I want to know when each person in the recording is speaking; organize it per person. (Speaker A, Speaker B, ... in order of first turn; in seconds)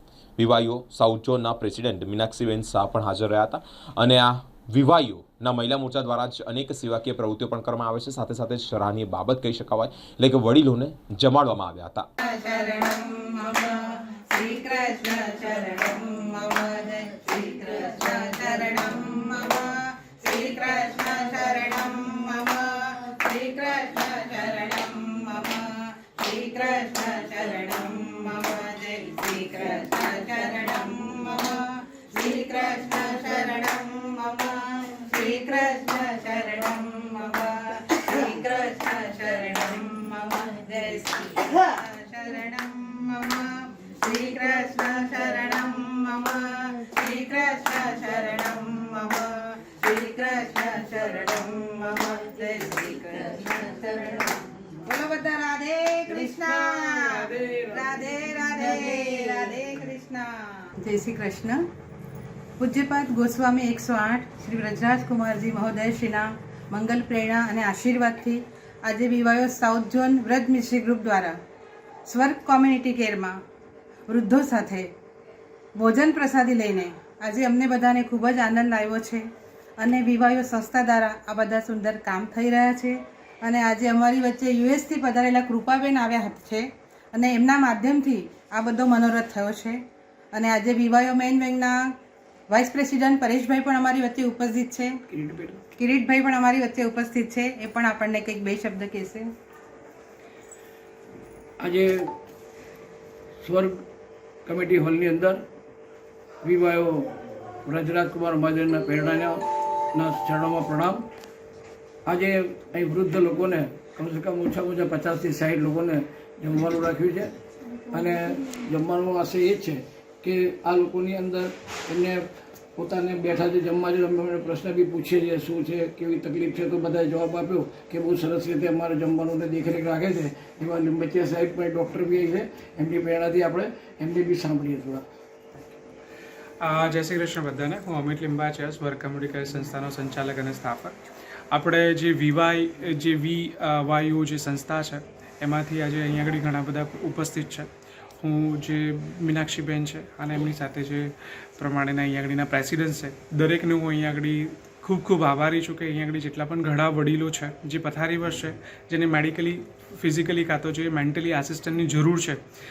Speaker A: 0.4-12.1
Speaker B: 12.2-61.6, 62.6-71.4, 72.1-73.4, 74.1-74.9, 75.8-79.2, 79.8-89.8, 90.3-91.8, 92.5-95.0, 95.7-99.3
Speaker C: 56.2-57.6, 95.1-95.6, 101.6-102.1, 103.4-103.8, 104.5-105.4, 106.4-107.1, 107.7-111.0, 112.1-117.3, 117.9-122.2, 122.8-135.0
Speaker D: 136.6-141.0, 141.5-162.4